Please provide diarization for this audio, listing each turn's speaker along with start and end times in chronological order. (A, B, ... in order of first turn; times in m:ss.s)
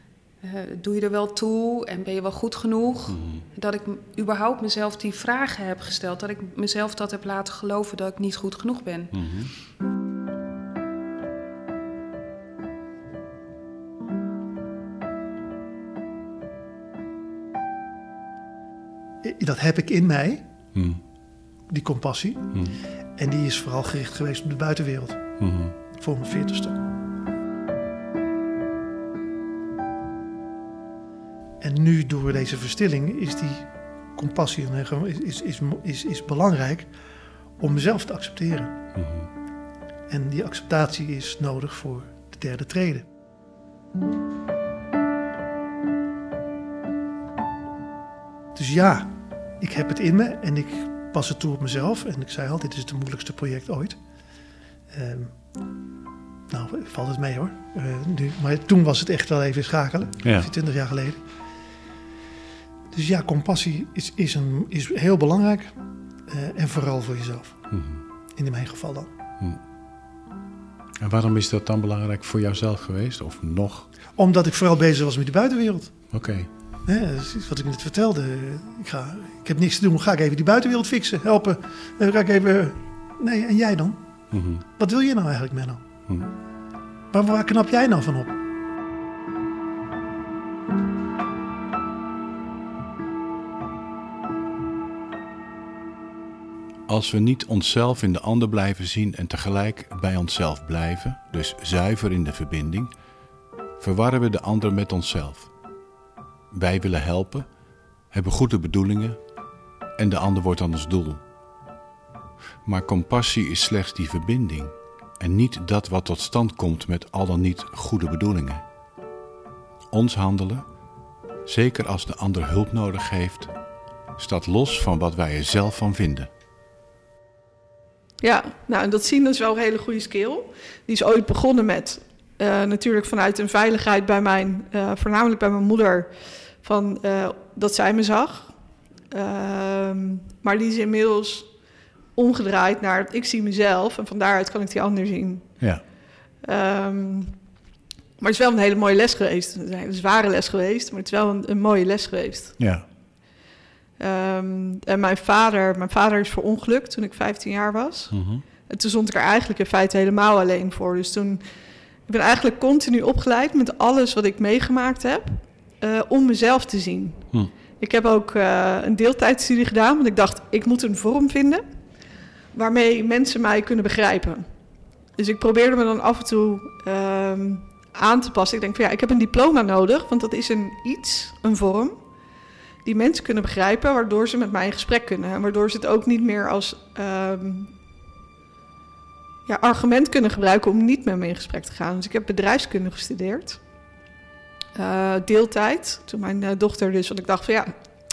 0:00.4-0:09.2 A
0:03.1-0:03.4 B
0:09.1-0:09.5 B
0:19.2-0:20.6 C
0:20.7-0:21.0 B
0:21.7-0:26.8 C
0:22.5-0:22.8 B
0:25.4-0:25.8 B
0:31.6-0:36.9 C
0:37.6-0:38.9 C
0:38.9-0:39.3 B
0:40.1-0:43.1 C
0:48.6-0:54.0 C
0:54.9-0:55.4 C
0:56.5-1:01.4 C
1:00.2-1:00.5 B
1:02.9-1:07.7 C
1:07.7-1:08.0 B
1:08.4-1:09.1 C
1:11.0-1:13.9 B
1:14.2-1:16.1 C
1:16.1-1:16.5 B
1:16.9-1:26.0 C
1:24.3-1:24.6 B
1:26.1-1:26.3 B
1:27.1-1:28.4 C
1:36.9-1:42.9 B
1:43.8-1:45.5 B
1:46.5-1:47.5 B
1:48.1-1:49.2 B
1:50.0-1:51.2 B
1:52.6-1:58.6 B
1:59.9-2:00.7 B
2:01.5-2:03.5 B
2:04.2-2:06.3 B
2:08.2-2:18.6 D
2:19.1-2:21.5 D
2:22.2-2:25.5 D
2:25.6-2:25.8 B
2:26.4-2:27.4 D
2:28.2-2:32.6 D
2:32.6-2:32.9 B
2:34.0-2:41.4 D
2:38.1-2:38.4 B
2:42.1-2:51.6 D
2:52.5-2:54.5 D
2:55.2-3:02.0 D
3:02.8-3:07.7 D
3:09.4-3:13.6 D
3:14.8-3:17.7 D